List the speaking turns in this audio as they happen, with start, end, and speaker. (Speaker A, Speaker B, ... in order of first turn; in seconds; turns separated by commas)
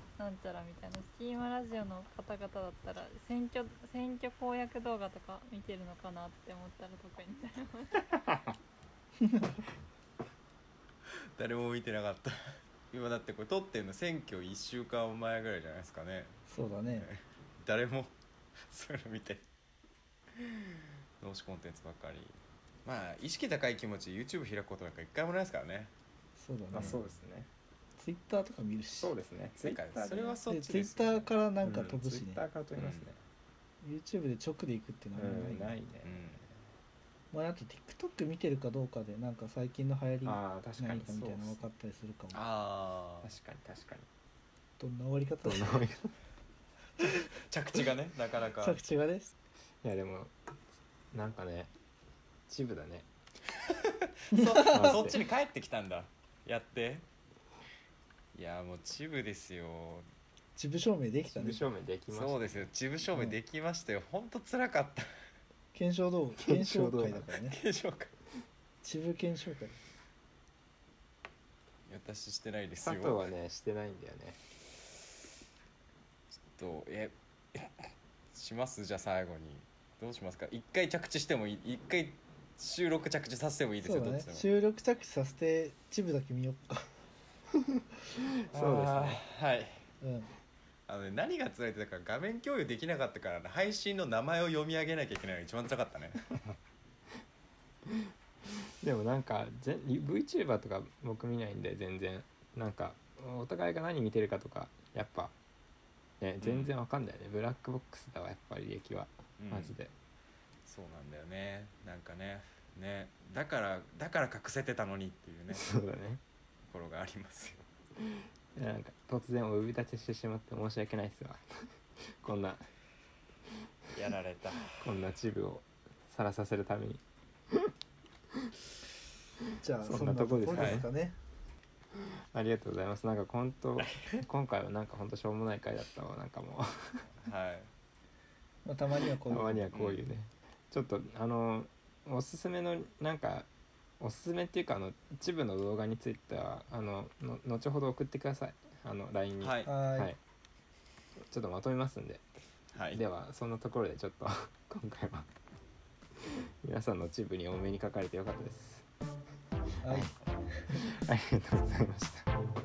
Speaker A: 0.2-8.0, Speaker B: 8.3-8.5, Speaker C: 9.2-9.6, Speaker D: 11.4-12.3, Speaker D: 12.9-16.4, Speaker C: 16.5-17.1, Speaker D: 16.9-18.1, Speaker D: 18.7-19.4, Speaker D: 20.4-25.9, Speaker C: 26.4-27.0, Speaker B: 26.7-27.5, Speaker C: 28.0-29.1, Speaker B: 29.0-30.4, Speaker D: 29.6-31.3, Speaker C: 30.5-32.4, Speaker B: 31.6-33.2, Speaker D: 32.8-33.1, Speaker C: 33.8-35.7, Speaker B: 35.1-36.5, Speaker D: 36.0-36.4, Speaker C: 37.3-42.4, Speaker B: 40.2-41.6, Speaker D: 42.3-43.3, Speaker B: 43.2-44.1, Speaker C: 44.8-45.8, Speaker B: 45.4-46.1, Speaker D: 47.5-48.8, Speaker C: 48.6-49.3, Speaker B: 49.8-50.3, Speaker B: 51.1-51.7, Speaker B: 52.5-53.0, Speaker D: 53.8-57.0, Speaker C: 54.3-55.0, Speaker B: 54.6-55.2, Speaker D: 58.3-60.0, Speaker C: 60.5-61.6, Speaker B: 61.3-62.6, Speaker D: 62.1-65.1, Speaker C: 65.7-67.6, Speaker B: 66.4-67.3, Speaker D: 67.4-68.1, Speaker C: 68.8-69.8, Speaker D: 71.9-73.2, Speaker B: 72.8-74.4, Speaker D: 76.5-84.5, Speaker C: 83.8-86.9, Speaker B: 88.5-89.2, Speaker D: 88.5-89.8, Speaker C: 90.0-90.3, Speaker D: 90.9-96.4, Speaker B: 97.8-98.1, Speaker B: 98.8-105.3, Speaker B: 106.2-109.9, Speaker D: 106.4-106.7, Speaker D: 109.4-109.8, Speaker D: 110.7-115.7, Speaker B: 115.5-116.2, Speaker D: 116.7-117.6, Speaker B: 118.0-122.6, Speaker D: 123.9-124.8, Speaker B: 124.8-127.7, Speaker C: 129.6-131.2, Speaker B: 129.8-130.9, Speaker D: 130.5-130.8, Speaker B: 131.9-137.1, Speaker D: 133.8-134.2, Speaker D: 137.2-137.7, Speaker C: 138.6-139.7, Speaker B: 139.3-143.5, Speaker D: 139.7-140.0, Speaker B: 144.0-150.2, Speaker D: 149.4-149.7, Speaker C: 149.7-150.1, Speaker B: 151.3-152.2, Speaker D: 152.7-153.0, Speaker B: 152.9-155.3, Speaker B: 156.2-158.8, Speaker C: 159.8-160.9, Speaker B: 159.8-160.1, Speaker B: 160.7-162.3